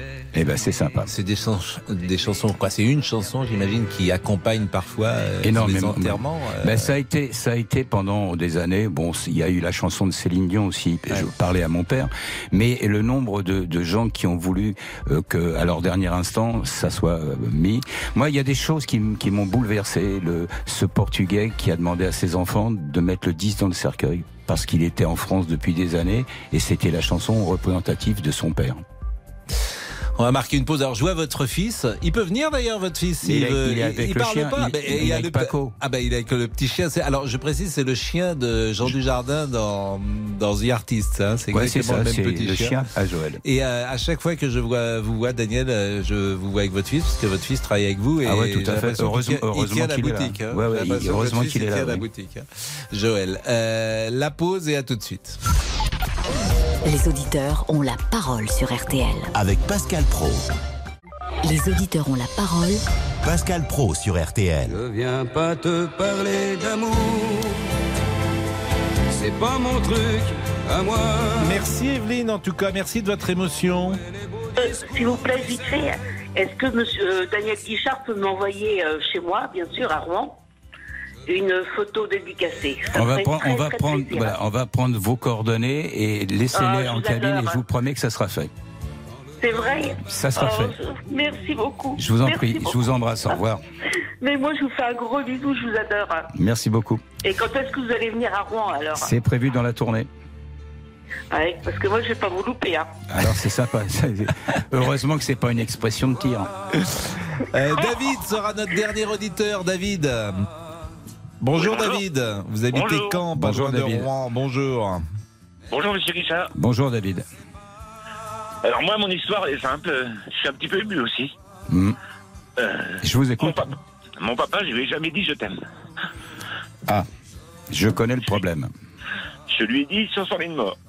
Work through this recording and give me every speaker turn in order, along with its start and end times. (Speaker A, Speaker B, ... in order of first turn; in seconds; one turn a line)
Speaker A: 0.3-1.1
Speaker B: 1.1-6.9
Speaker A: 5.4-28.8
Speaker B: 30.2-42.8
Speaker A: 33.2-35.7
Speaker A: 41.5-43.4
Speaker B: 43.4-55.4
Speaker A: 48.2-52.0
Speaker C: 56.8-59.3
Speaker D: 59.3-60.4
Speaker C: 61.4-62.8
Speaker D: 63.2-64.8
Speaker E: 64.7-67.6
Speaker E: 69.1-71.5
Speaker B: 71.4-74.0
Speaker F: 74.5-80.4
Speaker F: 81.2-84.4
Speaker A: 82.9-88.5
Speaker F: 86.5-87.6
Speaker F: 89.4-93.4
Speaker A: 90.1-90.7
Speaker A: 92.0-93.6
Speaker F: 94.2-96.3
Speaker A: 96.3-97.0
Speaker F: 97.2-99.1
Speaker A: 98.9-100.1
Speaker F: 101.3-102.9
Speaker A: 103.1-106.5
Speaker B: 107.4-110.4
Speaker B: 111.4-115.0
Speaker G: 111.5-112.0
Speaker G: 112.7-113.2
Speaker A: 113.3-114.1
Speaker G: 115.7-116.5
Speaker A: 116.5-117.2
Speaker G: 118.6-121.3
Speaker A: 121.7-122.0
Speaker G: 122.6-123.6
Speaker A: 123.0-123.7
Speaker G: 124.2-125.6
Speaker A: 127.7-128.7
Speaker G: 129.5-130.7